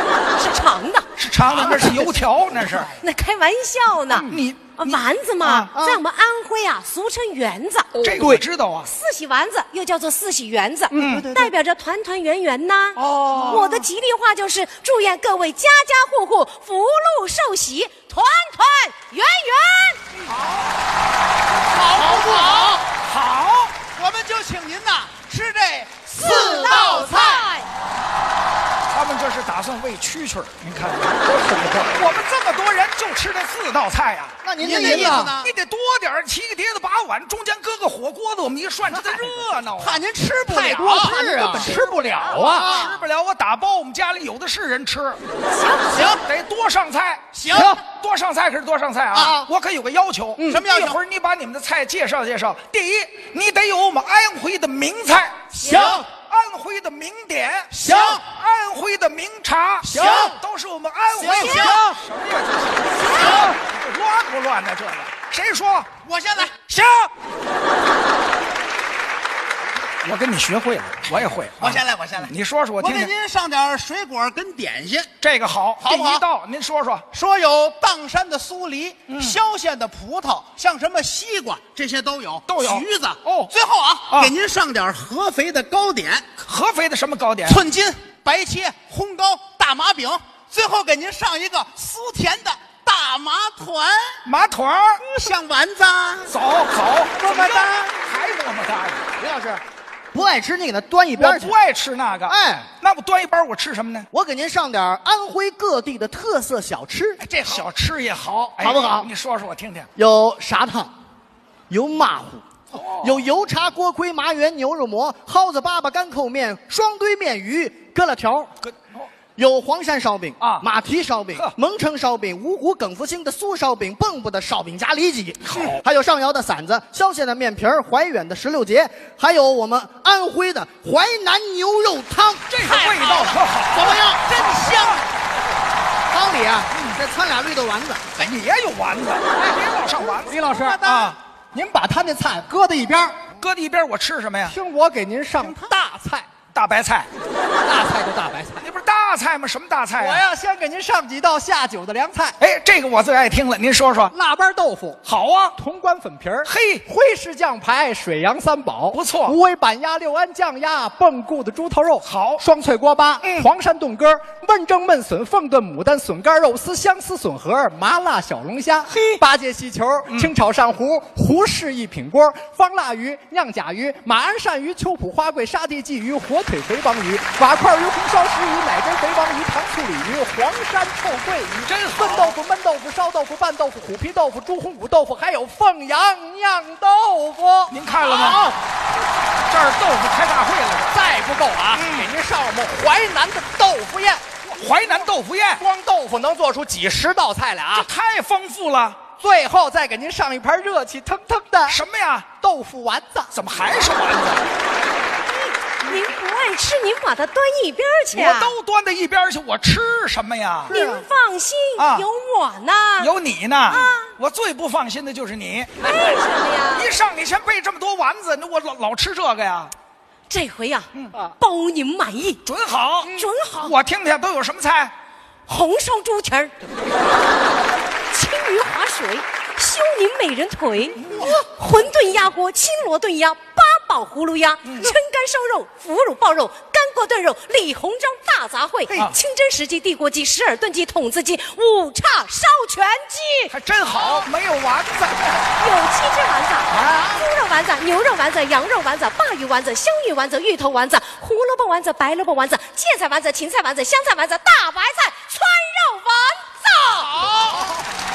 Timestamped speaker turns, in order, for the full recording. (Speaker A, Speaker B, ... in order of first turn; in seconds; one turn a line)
Speaker A: 0.3-1.1
Speaker B: 1.2-2.9
Speaker C: 1.5-2.9
Speaker A: 2.9-8.1
Speaker D: 4.1-4.4
Speaker B: 4.2-5.7
Speaker E: 5.8-6.0
Speaker D: 8.0-8.4
Speaker B: 8.0-8.9
Speaker A: 8.9-20.0
Speaker D: 10.9-11.2
Speaker B: 11.0-11.3
Speaker D: 13.0-13.8
Speaker C: 21.7-22.8
Speaker B: 22.9-23.8
Speaker C: 23.9-27.5
Speaker A: 26.2-27.7
Speaker B: 28.9-40.0
Speaker D: 31.2-32.2
Speaker E: 34.4-35.3
Speaker C: 34.6-35.5
Speaker D: 38.9-39.4
Speaker C: 39.8-41.5
Speaker D: 40.4-42.8
Speaker E: 40.9-41.8
Speaker A: 41.4-42.5
Speaker C: 42.3-42.9
Speaker E: 42.5-42.9
Speaker B: 42.6-45.2
Speaker A: 45.5-46.1
Speaker C: 45.9-46.2
Speaker B: 46.3-55.6
Speaker C: 47.3-47.8
Speaker C: 49.1-49.5
Speaker C: 50.4-51.0
Speaker C: 55.5-56.1
Speaker A: 55.6-56.0
Speaker B: 56.1-65.9
Speaker C: 57.7-58.3
Speaker C: 59.8-60.4
Speaker C: 61.1-62.0
Speaker A: 61.5-61.8
Speaker A: 63.0-63.4
Speaker C: 63.0-63.6
Speaker C: 66.0-66.7
Speaker B: 66.7-67.1
Speaker B: 70.0-73.1
Speaker C: 71.6-75.1
Speaker B: 75.2-77.0
Speaker C: 75.8-76.2
Speaker C: 77.1-86.3
Speaker B: 79.1-79.4
Speaker B: 82.5-83.5
Speaker B: 84.1-84.3
Speaker B: 86.4-87.6
Speaker C: 87.5-94.2
Speaker B: 94.3-95.0
Speaker C: 95.0-96.3
Speaker B: 96.3-99.6
Speaker C: 97.2-97.9
Speaker E: 100.1-101.5
Speaker B: 101.1-104.1
Speaker E: 102.3-102.7
Speaker E: 104.1-107.2
Speaker B: 107.2-109.9
Speaker E: 108.6-109.1
Speaker E: 110.0-110.9
Speaker E: 111.7-112.4
Speaker B: 112.7-113.2
Speaker E: 113.0-118.5
Speaker B: 118.6-119.0
Speaker E: 119.4-132.5
Speaker B: 120.4-120.7
Speaker B: 125.5-125.8
Speaker B: 132.5-134.6
Speaker C: 132.6-135.1
Speaker E: 136.1-138.0
Speaker B: 136.7-137.0
Speaker B: 138.2-141.2
Speaker D: 140.2-140.9
Speaker C: 140.5-141.1
Speaker D: 141.5-143.2
Speaker B: 143.4-144.6
Speaker D: 144.4-146.3
Speaker C: 145.4-145.7
Speaker B: 146.5-147.1
Speaker D: 147.6-148.7
Speaker B: 148.6-150.2
Speaker D: 149.9-152.4
Speaker B: 152.4-154.1
Speaker D: 154.1-155.0
Speaker B: 155.1-155.6
Speaker D: 155.6-188.6
Speaker B: 156.4-156.9
Speaker B: 158.9-159.4
Speaker B: 162.0-162.4
Speaker B: 163.2-163.5
Speaker B: 168.9-169.2
Speaker B: 170.1-170.3
Speaker B: 181.7-182.4
Speaker B: 187.7-188.5
Speaker B: 189.5-190.9
Speaker D: 190.9-194.2
Speaker B: 191.7-192.1
Speaker B: 194.5-195.6
Speaker D: 195.6-197.9
Speaker B: 197.7-199.1
Speaker D: 199.2-201.8
Speaker B: 201.7-202.3
Speaker D: 202.3-203.4
Speaker B: 203.3-204.5
Speaker A: 205.2-208.6
Speaker B: 208.1-210.7
Speaker A: 210.7-213.2
Speaker D: 210.7-211.0
Speaker B: 211.8-212.1
Speaker B: 213.0-215.9
Speaker A: 213.7-214.1
Speaker A: 215.8-216.9
Speaker B: 216.7-219.7
Speaker A: 220.3-222.4
Speaker B: 222.4-224.9
Speaker A: 223.1-223.8
Speaker A: 225.5-226.6
Speaker A: 228.1-244.3
Speaker B: 231.1-231.3
Speaker B: 234.7-234.9
Speaker B: 238.9-239.2
Speaker B: 243.5-245.5
Speaker A: 245.6-257.6
Speaker B: 246.7-247.1
Speaker C: 257.2-257.6